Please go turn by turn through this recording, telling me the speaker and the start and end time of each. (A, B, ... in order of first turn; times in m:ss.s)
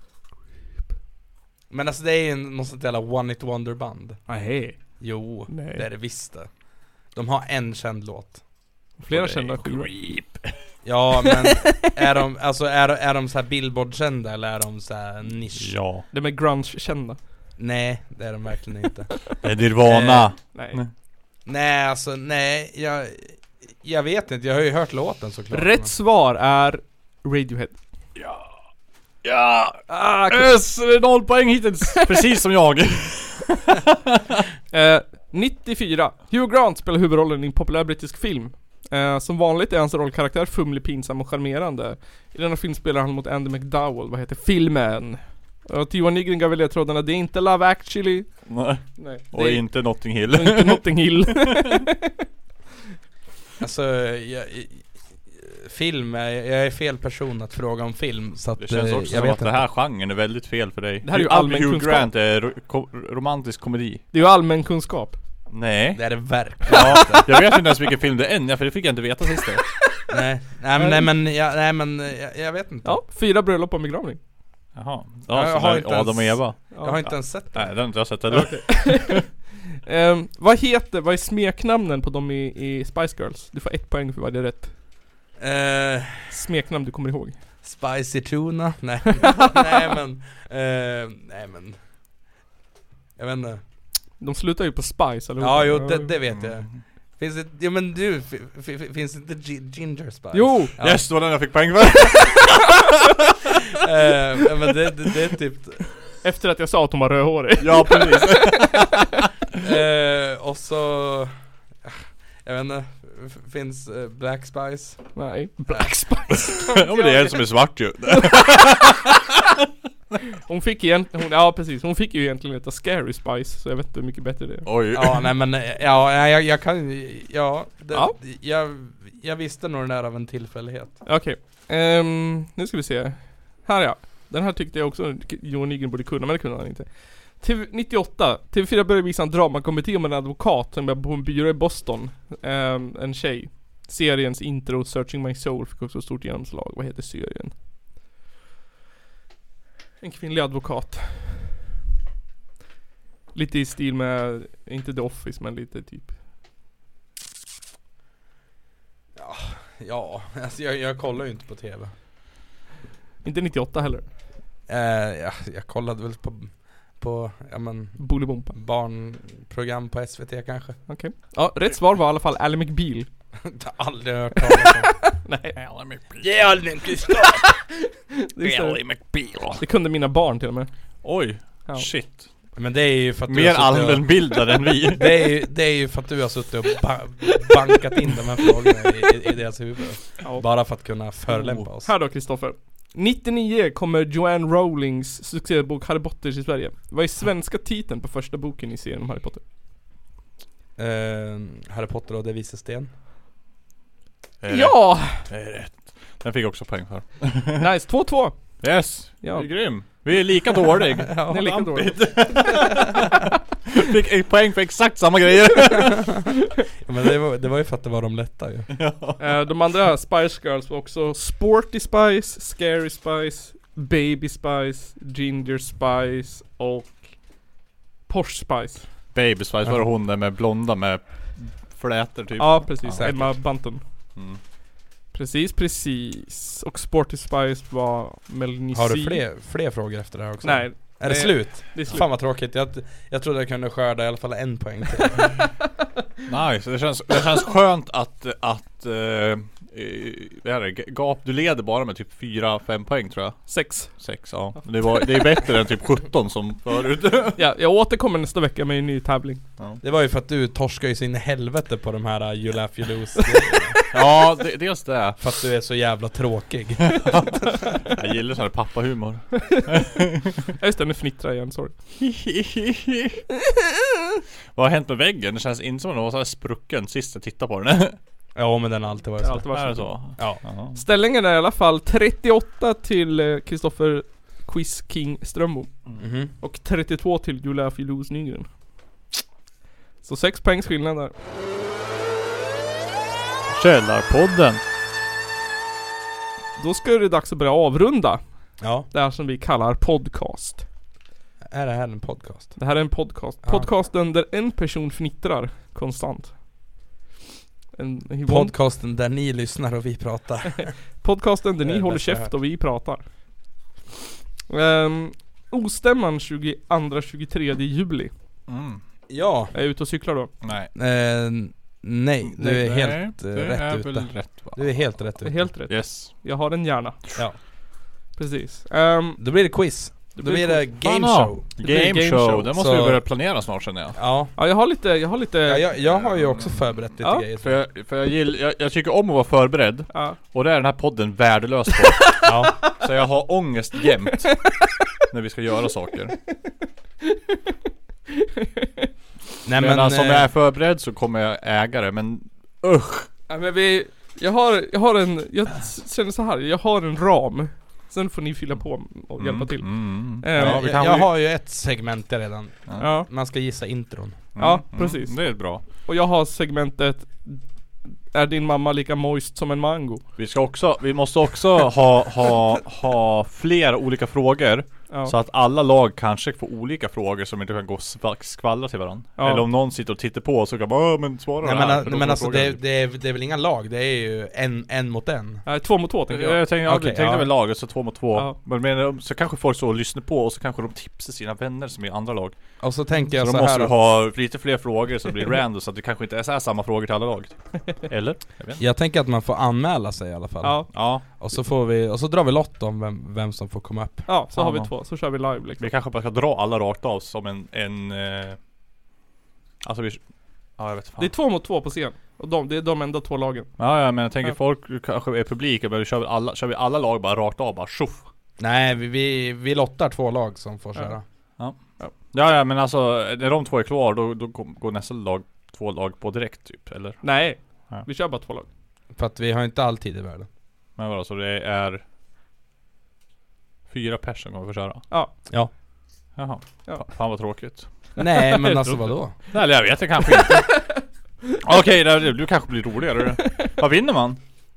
0:01.7-0:04.2 A
0:04.3-0:05.9 B
0:05.0-0:08.4 A
0:09.0-0:09.9 B
0:09.1-0:10.6 C
0:10.8-0:15.8 A
0:15.6-0:16.1 C
0:16.1-0:17.2 B
0:17.6-0:19.1 A
0:19.4-0:20.9 C
0:19.8-0:20.3 A
0:20.5-0:20.8 B
0:21.5-0:25.9 A
0:25.5-0:27.8 B
0:28.2-0:28.5 C
0:29.2-0:34.2 C
0:29.9-0:30.7 B
0:32.0-0:32.2 B
0:34.7-0:48.4 B
0:48.5-0:51.8 C
0:49.0-0:52.1 B
0:53.6-0:59.7 A
0:58.6-1:04.0 C
1:01.0-1:02.1 B
1:04.1-1:05.2 B
1:05.5-1:09.7 C
1:06.0-1:07.3 A
1:10.1-1:13.0 A
1:10.8-1:11.1 B
1:12.8-1:14.2 B
1:14.8-1:19.2 C
1:15.3-1:17.7 A
1:16.7-1:17.0 B
1:18.3-1:24.7 B
1:25.4-1:26.3 A
1:26.3-1:27.4 B
1:27.6-1:31.8 A
1:33.2-1:33.6 A
1:34.2-1:36.1 B
1:35.4-1:41.1 A
1:36.3-1:36.8 C
1:40.3-1:40.7 B
1:40.8-1:42.8 C
1:43.8-1:45.8 A
1:46.2-1:48.8 B
1:47.6-1:49.2 C
1:49.6-1:51.3 A
1:51.8-1:55.9 A
1:55.2-1:57.8 B
1:56.6-1:59.2 C
2:00.5-2:04.7 B
2:04.7-2:05.3 C
2:04.9-2:11.0 A
2:11.0-2:27.6 B
2:30.0-2:31.5 B
2:33.3-2:36.2 B
2:39.2-2:41.9 A
2:43.2-2:44.1 B
2:44.7-2:50.8 A
2:48.0-2:48.6 B
2:50.9-2:53.1 B
2:53.4-2:55.0 A
2:54.4-2:55.6 B
2:55.6-2:56.8 C
2:56.2-2:57.4 A
2:58.1-2:58.9 B
2:58.4-2:59.6 C
2:59.6-3:00.7 B
3:01.0-3:02.3 C
3:02.6-3:11.9 A
3:03.3-3:05.2 C
3:11.3-3:11.6 C
3:11.8-3:19.4 B
3:20.8-3:22.9 A
3:24.4-3:27.6 C
3:24.5-3:25.3 B
3:27.6-3:29.7 B
3:28.6-3:36.1 C
3:31.1-3:31.5 A
3:31.3-3:32.8 B
3:36.8-3:38.7 A
3:38.7-3:39.4 C
3:39.2-3:47.4 B
3:48.1-3:48.9 B
3:49.1-3:53.6 C
3:52.4-3:53.8 B
3:53.0-3:53.2 A
3:55.1-3:59.2 B
3:58.7-4:05.3 A
4:00.4-4:02.1 B
4:06.3-4:17.4 C
4:13.5-4:14.0 B
4:14.5-4:15.3 B
4:17.4-4:19.4 B
4:19.8-4:23.8 A
4:23.9-4:25.2 C
4:25.2-4:27.4 A
4:27.1-4:30.3 C
4:30.6-4:31.7 B
4:32.0-4:33.2 C
4:34.5-4:38.0 C
4:38.4-4:39.5 A
4:39.2-4:40.2 B
4:39.5-4:40.8 C
4:40.7-4:48.5 B
4:46.0-4:46.3 A
4:50.0-4:51.1 B
4:53.5-4:54.6 C
4:56.6-5:00.7 B
4:58.6-4:58.9 A
5:01.5-5:02.6 A
5:02.6-5:06.4 B
5:03.4-5:03.7 A
5:07.8-5:08.5 B
5:08.3-5:10.7 A
5:11.0-5:13.0 B
5:11.6-5:12.3 A
5:14.5-5:18.1 B
5:18.5-5:18.8 C
5:19.1-5:19.5 A
5:19.5-5:20.3 B
5:20.4-5:20.7 C
5:20.8-5:25.5 A
5:22.3-5:25.0 C
5:25.2-5:27.5 B
5:25.7-5:26.1 C
5:28.1-5:29.4 B
5:29.2-5:31.4 A
5:30.2-5:30.7 B
5:30.8-5:34.0 C
5:31.6-5:32.5 B
5:32.6-5:33.0 A
5:34.0-5:34.4 A
5:34.4-5:35.7 B
5:35.5-5:37.6 A
5:35.8-5:36.8 C
5:37.4-5:44.5 C
5:39.9-5:40.2 B
5:42.2-5:42.5 A
5:45.1-5:46.2 C
5:48.2-5:48.9 B
5:49.5-5:50.3 A
5:49.6-5:53.1 C
5:53.3-6:00.6 B
5:59.2-6:01.1 C
6:00.4-6:04.2 A
6:02.8-6:03.1 B
6:04.4-6:05.6 C
6:04.4-6:07.4 B
6:08.1-6:10.0 B
6:10.2-6:22.6 C
6:14.9-6:15.2 B
6:19.2-6:19.5 B
6:21.4-6:25.4 A
6:25.5-6:26.4 B
6:26.1-6:38.6 C
6:26.7-6:27.3 A
6:32.6-6:33.8 A
6:38.6-6:44.1 A
6:40.4-6:40.7 B
6:40.7-6:41.0 C
6:44.1-6:45.7 B
6:44.3-6:48.4 C
6:49.6-6:50.0 C
6:50.6-6:51.1 C
6:51.0-6:53.5 B
6:53.6-6:58.1 C
6:58.4-7:01.0 A
7:01.4-7:07.9 C
7:07.0-7:08.5 B
7:08.9-7:10.3 A
7:10.8-7:11.8 C
7:13.7-7:14.9 C
7:16.2-7:17.7 C
7:16.7-7:17.0 B
7:18.0-7:19.0 B
7:18.0-7:19.1 A
7:19.3-7:20.7 C
7:20.1-7:20.8 B
7:21.4-7:24.2 C
7:23.2-7:23.5 B